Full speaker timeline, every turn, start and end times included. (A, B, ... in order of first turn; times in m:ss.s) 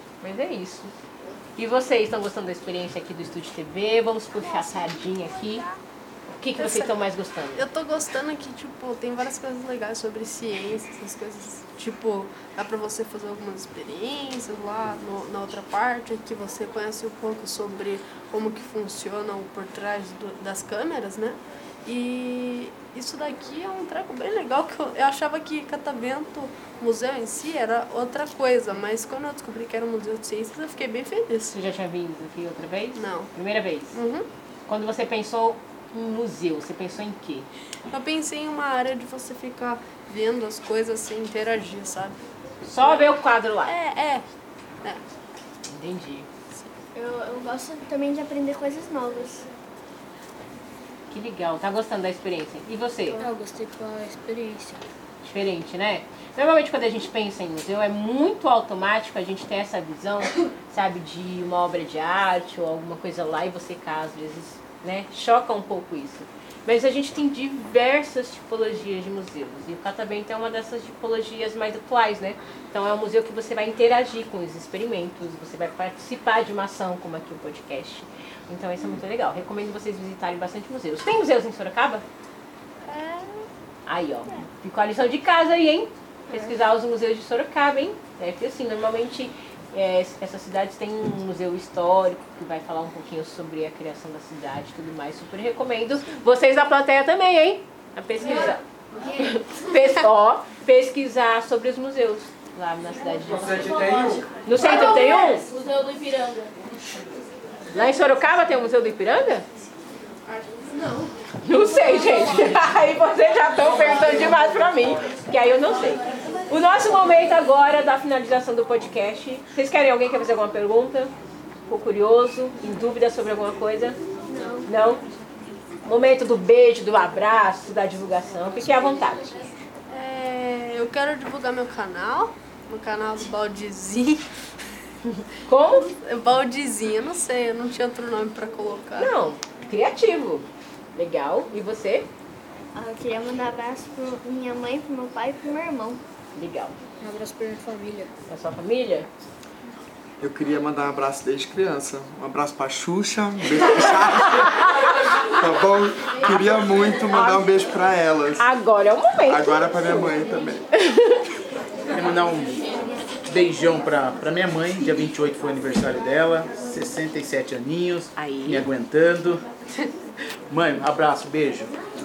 0:00.2-0:00.9 A
0:01.6-0:05.6 A
0:06.3-0:07.6 A
0:06.6-0:07.0 B
0:07.6-0:31.5 B
0:31.5-0:34.0 A
0:33.0-0:33.3 B
0:33.9-0:34.3 B
0:34.7-0:37.5 A
0:37.9-0:42.2 B
0:42.6-0:43.8 A
0:43.7-0:44.3 B
0:45.7-0:46.3 A
0:46.9-0:49.5 C
0:51.1-0:53.2 A
0:53.1-0:54.8 D
0:55.2-1:22.0 A
1:22.8-1:23.5 B
1:23.8-1:38.6 A
1:39.2-1:43.7 A
1:43.3-1:44.4 E
1:44.4-1:45.4 A
1:47.7-1:49.4 A
1:50.4-1:50.8 B
1:51.4-2:01.1 A
2:01.7-2:04.0 A
2:04.3-2:04.7 C
2:04.6-2:05.0 A
2:05.8-2:09.5 A
2:09.9-2:14.2 B
2:15.4-2:15.9 A
2:16.0-2:19.1 B
2:19.0-2:22.1 A
2:22.7-2:26.0 C
2:26.3-2:26.7 A
2:27.0-2:28.1 D
2:28.3-2:29.1 A
2:30.2-2:34.7 F
2:35.4-2:38.5 F
2:37.1-2:37.4 A
2:38.4-2:40.0 A
2:39.2-2:40.6 F
2:40.7-2:41.2 A
2:41.9-2:42.6 E
2:43.2-2:49.4 E
2:48.2-2:48.7 A
2:50.5-2:51.7 E